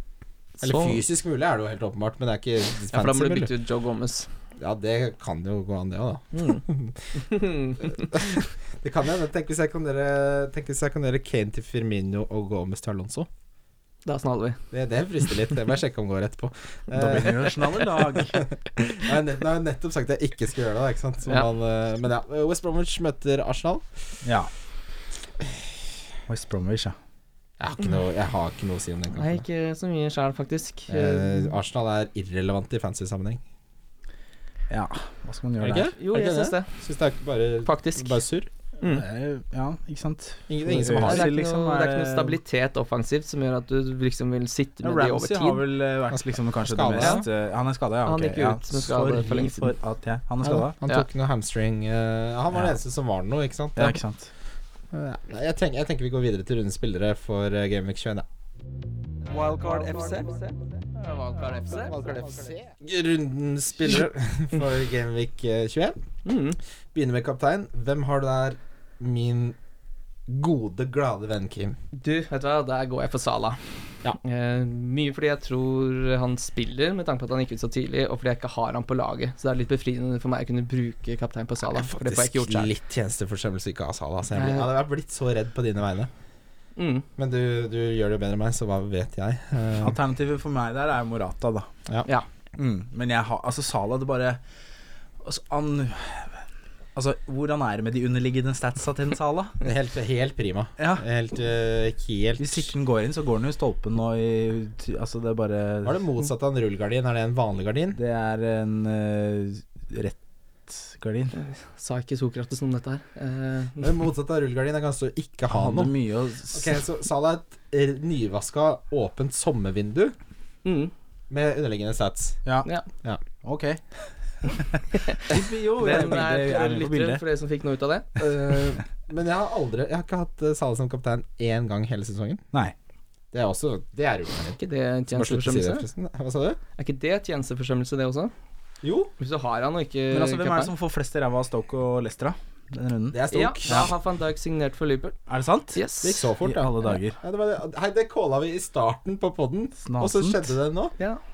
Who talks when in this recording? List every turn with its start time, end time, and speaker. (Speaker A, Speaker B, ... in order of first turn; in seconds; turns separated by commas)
Speaker A: 0.6-1.0, Speaker B: 0.6-3.5, Speaker A: 2.9-4.3, Speaker B: 4.6-7.2, Speaker A: 6.3-6.6, Speaker A: 7.1-8.4, Speaker B: 7.8-13.3, Speaker A: 14.0-14.6, Speaker B: 14.7-23.8, Speaker C: 16.9-18.4, Speaker C: 24.2-24.5, Speaker C: 26.3-26.9, Speaker B: 27.6-29.4, Speaker A: 29.2-31.5, Speaker B: 30.9-33.4, Speaker C: 34.7-35.9, Speaker B: 35.6-38.5, Speaker A: 35.9-36.7, Speaker A: 37.6-38.2, Speaker C: 38.8-42.4, Speaker B: 40.5-41.3, Speaker A: 41.0-45.6, Speaker C: 44.8-50.7, Speaker B: 46.1-47.2, Speaker A: 47.0-47.2, Speaker A: 48.0-49.7, Speaker B: 50.4-54.0, Speaker C: 53.8-54.3, Speaker B: 54.9-58.2, Speaker A: 59.4-62.3, Speaker B: 62.0-66.0, Speaker A: 66.2-66.6, Speaker B: 66.9-69.6, Speaker B: 70.3-71.8, Speaker A: 71.9-82.7, Speaker B: 81.6-86.1, Speaker A: 84.3-84.7, Speaker A: 86.8-87.0, Speaker B: 87.2-90.0, Speaker C: 89.8-91.7, Speaker C: 92.5-94.4, Speaker C: 95.2-96.4, Speaker C: 96.9-99.6, Speaker B: 99.6-102.7, Speaker C: 100.8-101.0, Speaker C: 102.4-106.0, Speaker B: 105.8-108.0, Speaker C: 107.9-111.3, Speaker A: 111.3-113.9, Speaker B: 113.8-115.9, Speaker C: 115.5-116.8, Speaker B: 116.5-120.1, Speaker A: 120.6-120.9, Speaker B: 121.3-122.4, Speaker C: 123.4-123.8, Speaker C: 124.4-127.2, Speaker A: 124.9-128.1, Speaker B: 128.2-132.4, Speaker B: 133.3-134.6, Speaker A: 134.6-135.8, Speaker B: 135.1-136.6, Speaker A: 136.8-138.3, Speaker B: 138.8-139.1, Speaker A: 139.2-140.7, Speaker C: 140.1-143.9, Speaker B: 143.1-143.9, Speaker A: 143.3-145.2, Speaker C: 145.3-145.8, Speaker A: 145.7-146.2, Speaker B: 146.0-150.9, Speaker C: 146.4-147.2, Speaker C: 149.8-150.5